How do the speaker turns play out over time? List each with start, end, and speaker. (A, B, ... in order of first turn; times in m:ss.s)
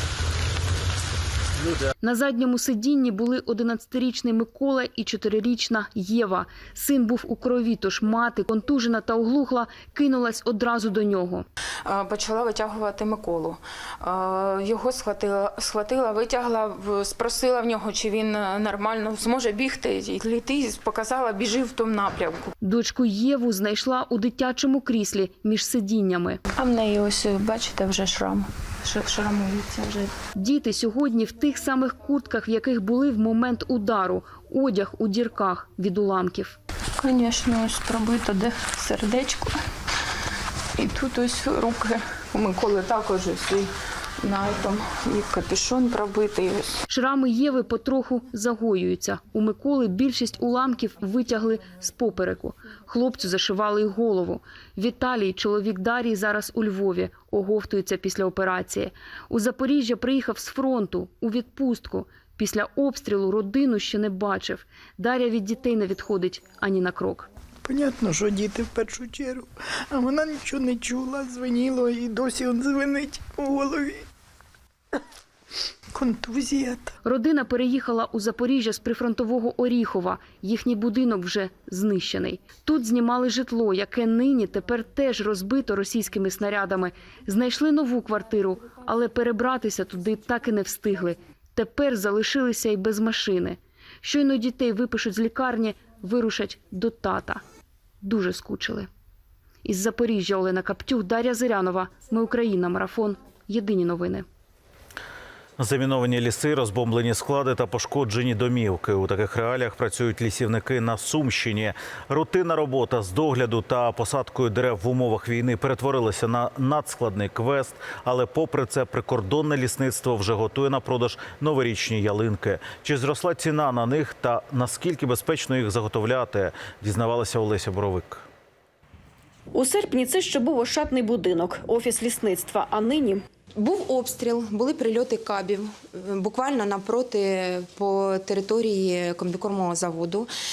0:02.0-0:11.4 A
0:11.8-0:22.5 B
0:22.6-0:26.4 A
0:26.5-0:30.1 B
0:30.4-0:36.6 A
0:37.0-0:39.6 B
0:40.8-0:46.8 B
0:46.9-1:07.3 A
1:07.6-1:14.0 C
1:16.0-1:16.9 C
1:17.0-1:37.4 A
1:38.0-1:38.9 A
1:39.6-1:44.2 A
1:45.6-2:08.3 D
2:09.5-2:13.2 E
2:13.6-2:20.3 F